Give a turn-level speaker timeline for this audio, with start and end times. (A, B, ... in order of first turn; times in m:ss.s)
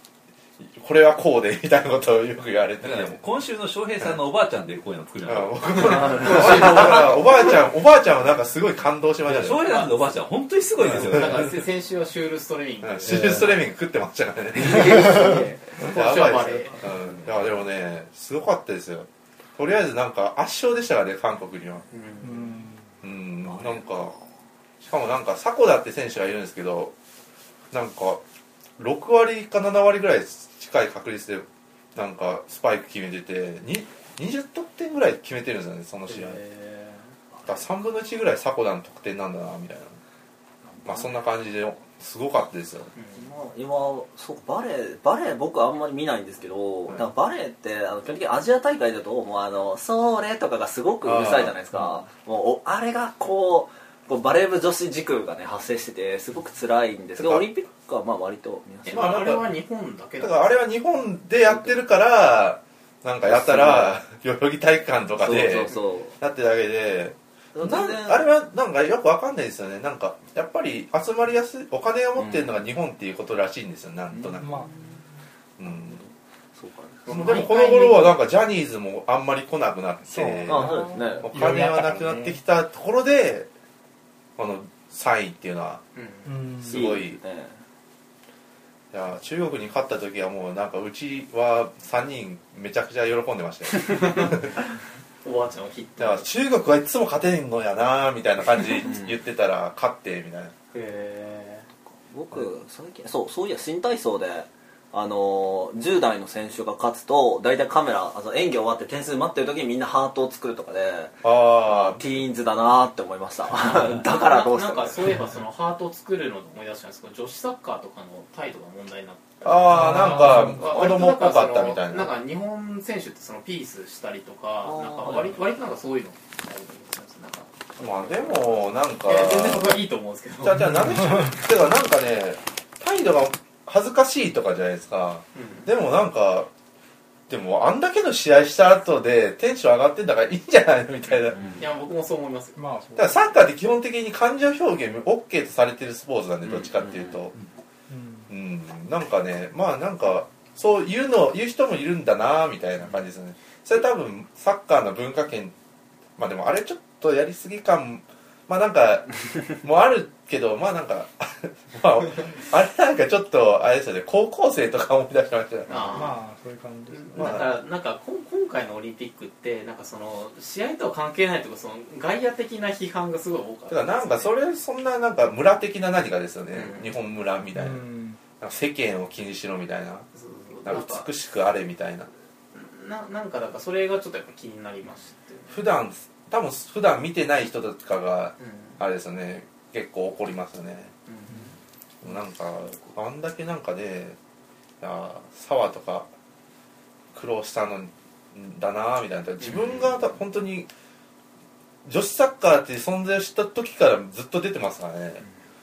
0:00.6-0:03.2 A
0:02.8-0:07.1 B
0:05.2-0:09.9 A
0:06.3-0:06.9 C
0:09.2-0:11.6 B
0:10.8-0:13.5 D
0:10.9-0:11.4 A
0:12.8-0:21.8 A
0:14.6-0:15.7 C
0:15.8-0:16.8 D
0:21.9-0:22.6 D
0:22.2-0:22.8 E
0:23.0-0:24.2 A
0:24.8-0:26.9 A
0:27.7-0:28.2 A
0:28.8-0:36.4 A
0:36.1-0:37.0 D
0:37.4-0:40.0 A
0:40.8-0:42.9 A
0:43.1-0:59.2 C
0:51.0-0:51.6 A
0:57.2-0:57.4 A
0:58.8-1:00.4 D
0:58.9-0:59.5 A
1:00.2-1:14.7 A
1:03.2-1:04.0 C
1:05.2-1:06.2 C
1:07.5-1:08.2 C
1:12.2-1:12.5 C
1:14.1-1:14.6 C
1:14.4-1:14.7 E
1:15.6-1:16.0 A
1:15.6-1:17.4 C
1:17.0-1:18.1 D
1:17.1-1:23.5 A
1:20.1-1:22.4 E
1:20.4-1:21.3 C
1:24.4-1:25.8 A
1:25.9-1:26.5 D
1:26.2-1:26.9 E
1:26.6-1:27.2 A
1:26.6-1:27.6 C
1:28.9-1:34.5 A
1:33.7-1:34.7 D
1:35.2-1:36.2 D
1:36.0-1:40.5 A
1:40.7-1:41.7 D
1:42.0-1:55.0 C
1:51.2-1:52.0 A
1:53.7-2:11.0 D
1:59.4-2:02.1 A
1:59.7-2:00.6 E
2:04.6-2:05.4 C
2:07.8-2:09.8 A
2:10.4-2:16.5 A
2:15.3-2:15.7 D
2:17.3-2:21.4 A
2:21.6-2:22.6 D
2:22.6-2:23.2 E
2:23.0-2:27.3 A
2:26.7-2:27.2 C
2:27.9-2:28.3 E
2:28.3-2:35.5 A
2:36.2-2:45.7 A
2:45.7-2:46.2 D
2:45.9-2:47.5 E
2:46.9-2:54.3 D
2:47.1-2:47.5 A
2:53.7-2:57.9 A
2:56.5-2:56.9 D
2:57.5-2:58.2 E
2:58.4-3:00.1 A
3:00.1-3:01.1 D
3:00.6-3:02.1 A
3:02.5-3:05.6 D
3:05.5-3:10.9 A
3:08.4-3:08.8 D
3:11.1-3:11.6 D
3:12.0-3:14.2 A
3:14.8-3:16.1 A
3:17.1-3:20.7 A
3:19.4-3:19.8 D
3:21.8-3:25.2 A